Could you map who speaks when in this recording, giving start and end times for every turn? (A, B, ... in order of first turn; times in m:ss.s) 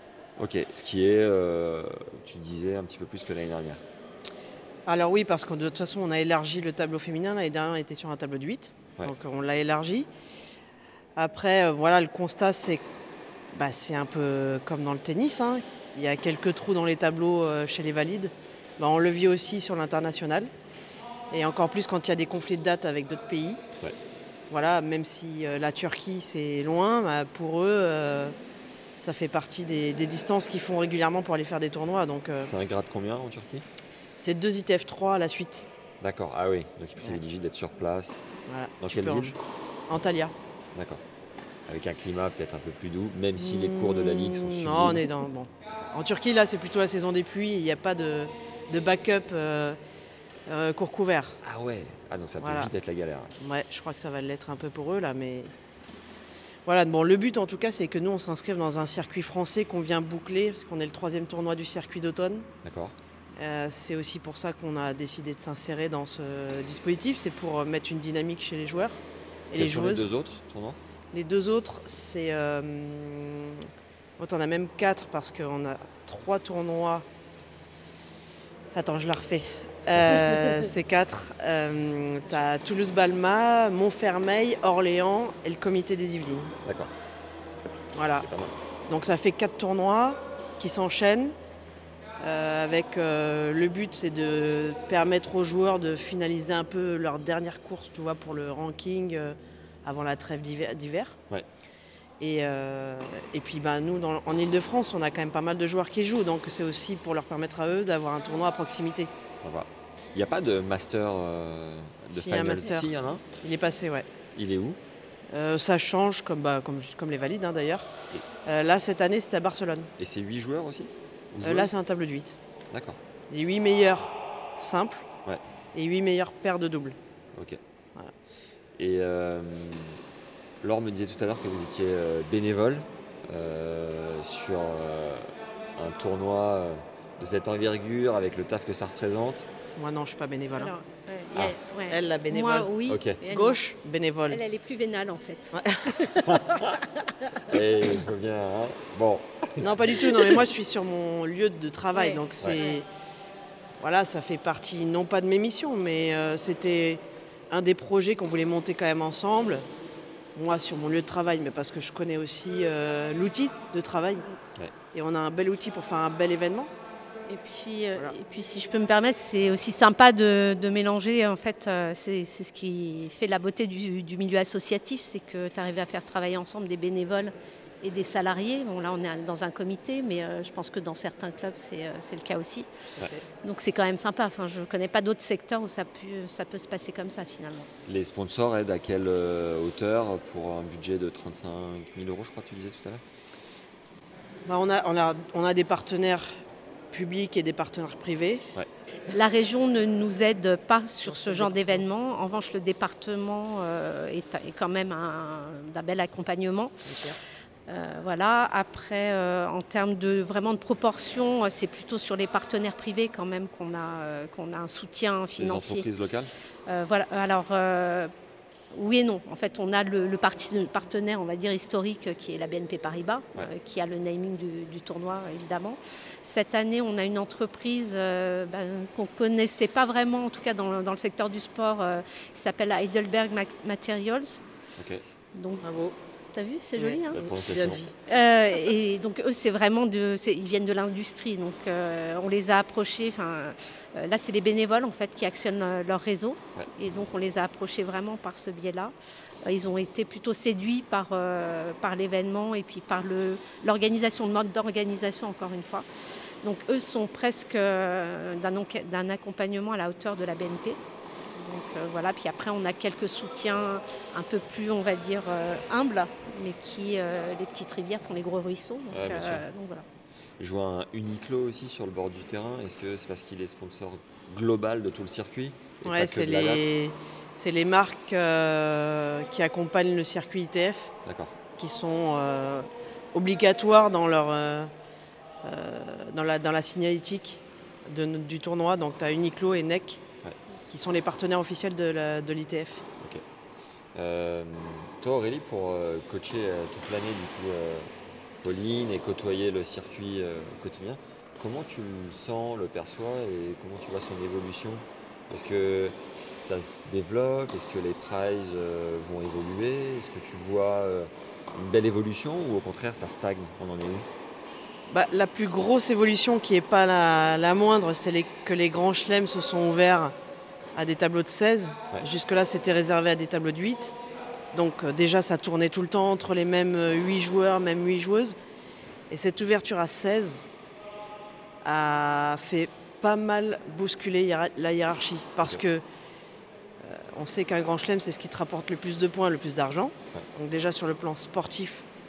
0:00.4-0:03.8 A
0:04.8-0:10.1 B
0:11.2-0:12.8 B
0:13.5-0:20.5 B
0:21.3-0:23.6 B
0:24.5-0:28.4 B
0:29.0-0:32.5 B
0:32.4-0:33.6 A
0:34.2-0:35.6 B
0:36.0-0:38.3 A
0:38.5-0:39.4 B
0:38.8-0:39.3 A
0:39.9-0:40.3 B
0:40.7-0:41.0 A
0:41.7-0:45.0 A
0:43.4-0:49.8 B
0:50.5-0:51.4 B
0:51.4-0:53.3 A
0:52.4-0:52.7 B
0:53.4-0:55.5 B
0:56.6-1:02.5 B
1:02.6-1:02.9 A
1:03.4-1:10.1 B
1:09.5-1:10.8 A
1:11.1-1:13.6 B
1:14.2-1:17.0 B
1:18.7-1:26.5 B
1:26.6-1:26.9 A
1:27.9-1:28.3 B
1:28.2-1:28.5 A
1:28.9-1:31.3 B
1:32.2-1:41.2 B
1:42.2-1:49.1 B
1:49.4-1:53.2 A
1:52.1-1:54.1 B
1:54.3-1:54.8 A
1:55.3-1:59.9 B
2:00.0-2:01.7 A
2:01.4-2:02.4 B
2:02.7-2:03.0 A
2:03.3-2:05.1 B
2:05.7-2:07.0 B
2:07.3-2:07.6 A
2:08.8-2:10.0 A
2:10.6-2:19.5 A
2:19.8-2:20.7 B
2:20.5-2:23.6 C
2:21.9-2:24.4 B
2:22.9-2:23.2 A
2:24.3-2:26.2 C
2:25.5-2:26.0 B
2:26.2-2:26.7 A
2:27.5-2:30.2 A
2:29.6-2:32.9 B
2:31.9-2:32.2 C
2:33.8-2:39.6 B
2:40.4-2:44.2 B
2:44.9-2:46.7 B
2:47.3-3:02.7 C
3:03.4-3:07.7 C
3:07.8-3:13.0 A
3:14.4-3:16.4 B
3:16.9-3:18.5 B
3:19.1-3:26.7 C
3:21.0-3:21.9 B
3:26.8-3:27.2 B
3:27.7-3:35.9 C
3:35.4-3:36.3 A
3:36.7-3:38.1 C
3:38.7-3:54.4 C
3:54.8-3:55.0 A
3:55.3-3:55.6 C
3:55.6-3:55.9 B
3:56.3-3:57.2 C
3:56.8-3:57.9 B
3:57.1-3:57.8 A
3:58.1-4:08.9 C
4:09.4-4:15.8 C
4:16.4-4:20.8 C
4:21.3-4:29.8 C
4:28.9-4:29.4 A
4:30.4-4:36.7 A
4:35.8-4:40.9 B
4:41.0-4:41.3 A
4:41.6-4:44.7 B
4:45.4-4:50.0 B
4:50.7-4:52.8 B
4:53.9-4:57.9 A
4:58.4-5:14.1 A
5:14.9-5:20.1 B
5:20.7-5:23.9 B
5:24.5-5:28.4 B
5:29.1-5:30.5 B
5:31.6-5:35.8 B
5:36.8-5:41.8 B